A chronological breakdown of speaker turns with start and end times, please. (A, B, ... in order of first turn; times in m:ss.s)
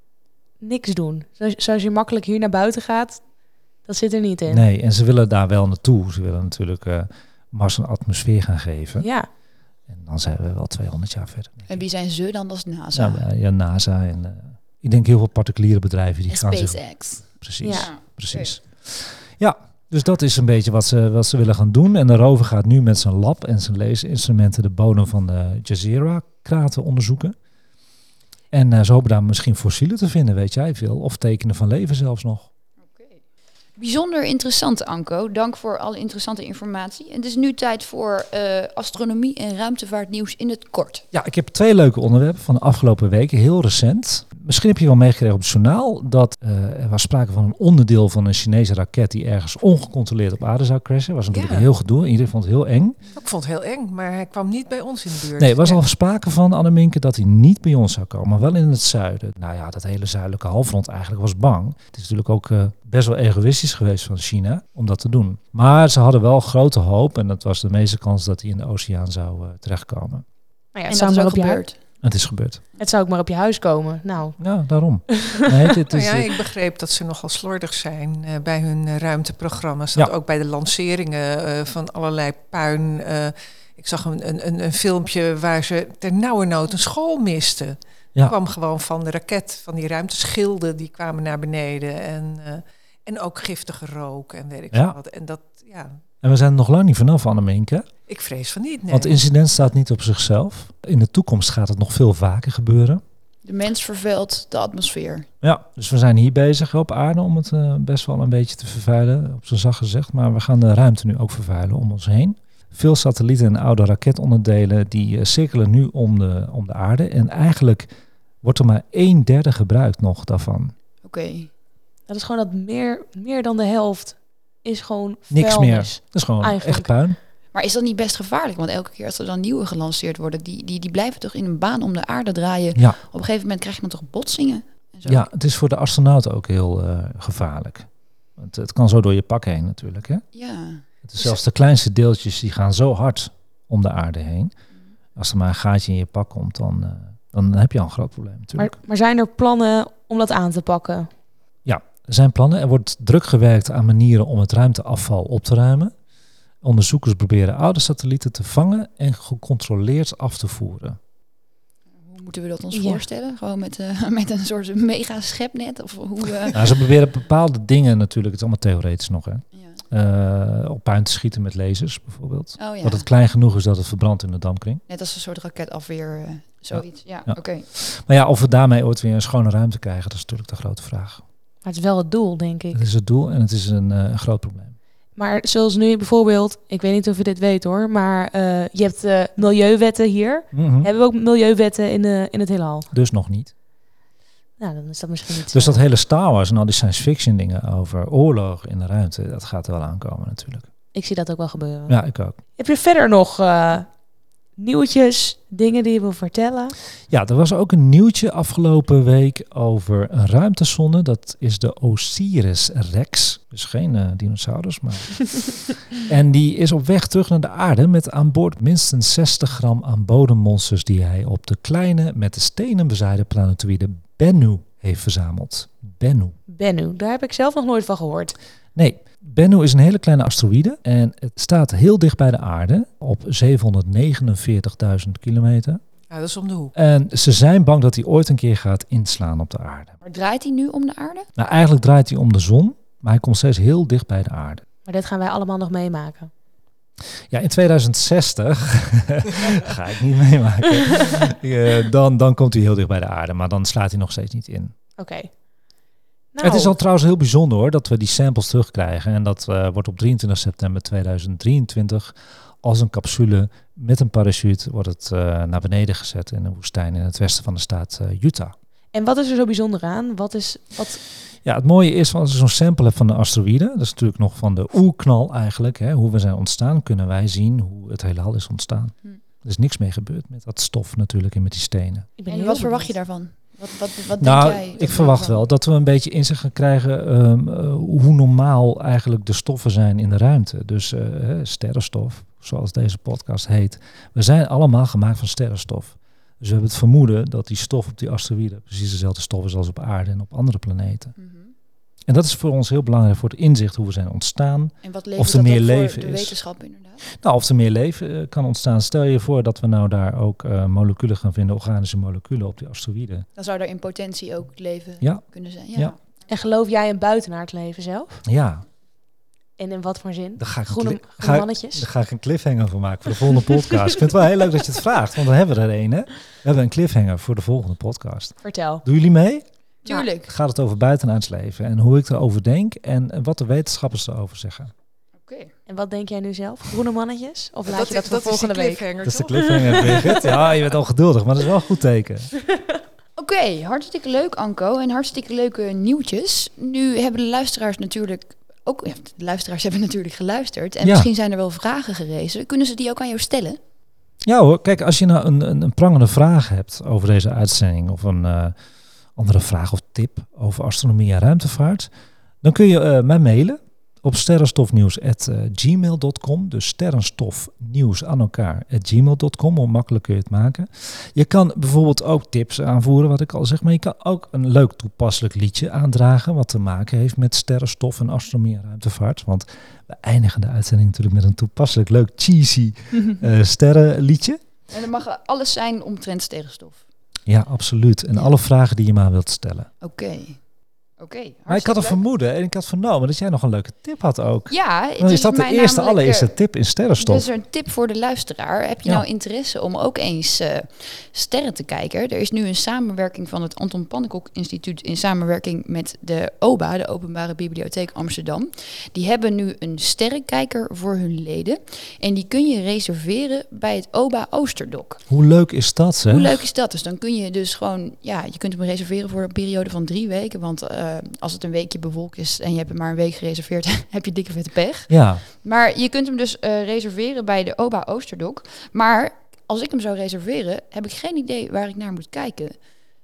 0:00.6-0:03.2 A
0:03.8-0:04.6 A
0:04.5-0:09.1 B
0:09.0-0:09.3 A
0:09.9-0:11.8 B
0:11.7-0:13.2 C
0:12.9-0:27.4 B
0:16.3-0:18.5 C
0:17.6-0:17.9 A
0:28.5-0:32.5 B
0:32.8-0:33.2 C
0:33.8-0:41.0 C
0:41.1-0:53.0 B
0:51.3-0:51.7 D
0:53.1-0:55.8 D
0:55.4-1:10.2 B
1:10.7-1:11.6 A
1:10.9-1:11.8 C
1:12.0-1:12.6 B
1:12.8-1:14.4 A
1:14.4-1:16.3 B
1:15.1-1:15.5 A
1:15.9-1:36.0 D
1:34.7-1:35.0 B
1:36.2-1:37.9 B
1:38.1-1:39.2 D
1:38.9-1:43.0 B
1:43.4-1:45.3 C
1:45.4-1:57.9 B
1:58.4-2:00.7 B
2:01.0-2:01.5 C
2:02.1-2:06.9 A
2:05.3-2:07.2 B
2:07.5-2:15.2 C
2:15.0-2:20.2 B
2:20.3-2:20.8 C
2:21.0-2:24.5 B
2:25.2-2:28.8 B
2:28.6-2:31.1 A
2:31.6-2:35.9 B
2:36.6-2:41.0 B
2:42.0-2:46.7 C
2:42.7-2:43.0 A
2:46.5-2:54.8 B
2:52.6-2:53.0 C
2:54.9-2:57.6 C
2:56.7-3:01.2 B
3:01.6-3:02.8 A
3:02.7-3:04.8 B
3:05.2-3:12.9 A
3:10.5-3:10.9 B
3:12.9-3:13.5 B
3:14.6-3:15.8 A
3:15.5-3:20.7 B
3:20.9-3:22.0 A
3:21.9-3:22.4 B
3:22.6-3:23.9 A
3:24.6-3:26.8 A
3:27.1-3:46.4 B
3:46.5-3:48.4 A
3:48.8-3:55.8 B
3:56.1-3:56.7 D
3:56.7-4:00.0 B
4:00.0-4:01.3 C
4:01.4-4:04.6 B
4:04.8-4:06.3 A
4:07.3-4:14.7 B
4:15.0-4:15.3 A
4:16.3-4:16.8 A
4:16.4-4:28.5 B
4:28.9-4:31.0 A
4:31.4-4:42.1 B
4:42.2-4:42.9 A
4:42.3-4:45.4 C
4:44.2-5:01.1 B
5:01.2-5:01.5 C
5:02.1-5:06.4 B
5:04.8-5:07.0 C
5:07.1-5:13.3 B
5:13.4-5:16.0 C
5:16.3-5:18.2 A
5:18.2-5:18.6 B
5:19.6-5:21.9 A
5:20.4-5:29.4 B
5:28.4-5:28.8 A
5:29.8-5:30.3 C
5:30.2-5:34.7 B
5:35.2-5:35.5 C
5:35.7-5:38.8 A
5:37.6-5:40.4 D
5:39.0-5:42.3 B
5:43.2-5:53.6 C
5:50.8-5:51.1 B
5:54.2-5:58.5 B
5:59.2-6:01.9 B
6:02.4-6:24.4 B
6:24.7-6:26.8 C
6:27.3-6:29.7 B
6:29.8-6:30.4 C
6:31.0-6:32.0 C
6:31.5-6:37.3 B
6:34.5-6:36.3 C
6:37.0-6:55.0 C
6:55.1-6:56.4 B
6:56.1-7:12.6 C
7:04.9-7:05.2 B